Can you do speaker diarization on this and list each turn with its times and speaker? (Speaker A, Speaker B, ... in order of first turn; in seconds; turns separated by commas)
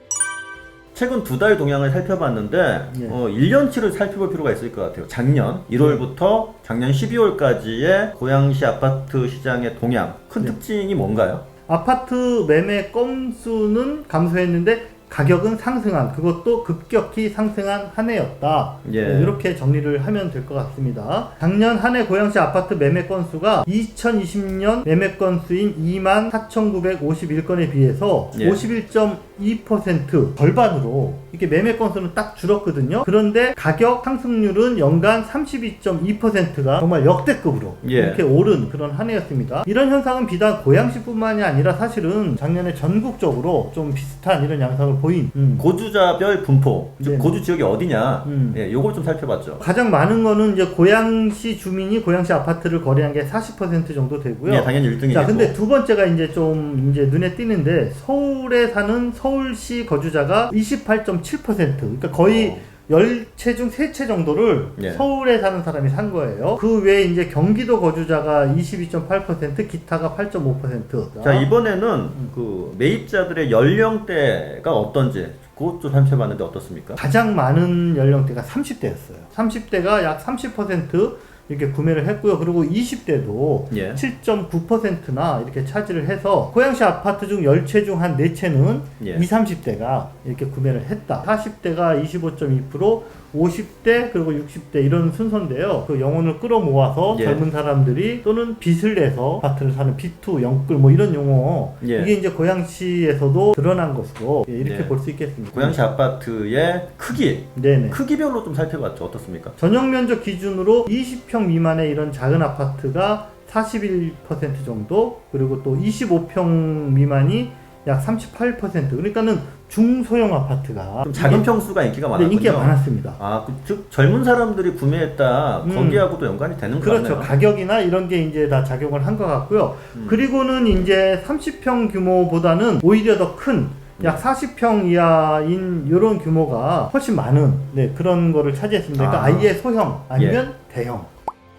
Speaker A: 0.9-11.5, Speaker B: 2.9-3.2, Speaker B: 11.7-45.7, Speaker A: 18.8-19.4, Speaker A: 28.3-28.6, Speaker A: 37.8-38.2, Speaker A: 45.6-49.6, Speaker B: 47.0-47.4, Speaker B: 48.2-48.6, Speaker B: 49.6-71.5, Speaker A: 54.5-55.5, Speaker A: 62.2-62.6, Speaker A: 64.8-65.0, Speaker A: 71.2-77.0, Speaker B: 77.0-105.8, Speaker A: 83.7-84.0, Speaker A: 89.0-89.3, Speaker A: 97.1-97.4, Speaker A: 101.8-102.1, Speaker A: 104.6-105.0, Speaker A: 105.5-109.6, Speaker B: 107.5-108.0, Speaker B: 109.6-121.5, Speaker A: 121.0-127.3, Speaker B: 122.1-123.2, Speaker B: 125.6-126.1, Speaker B: 126.8-141.1, Speaker A: 129.9-130.2, Speaker A: 139.0-139.5, Speaker A: 140.2-140.4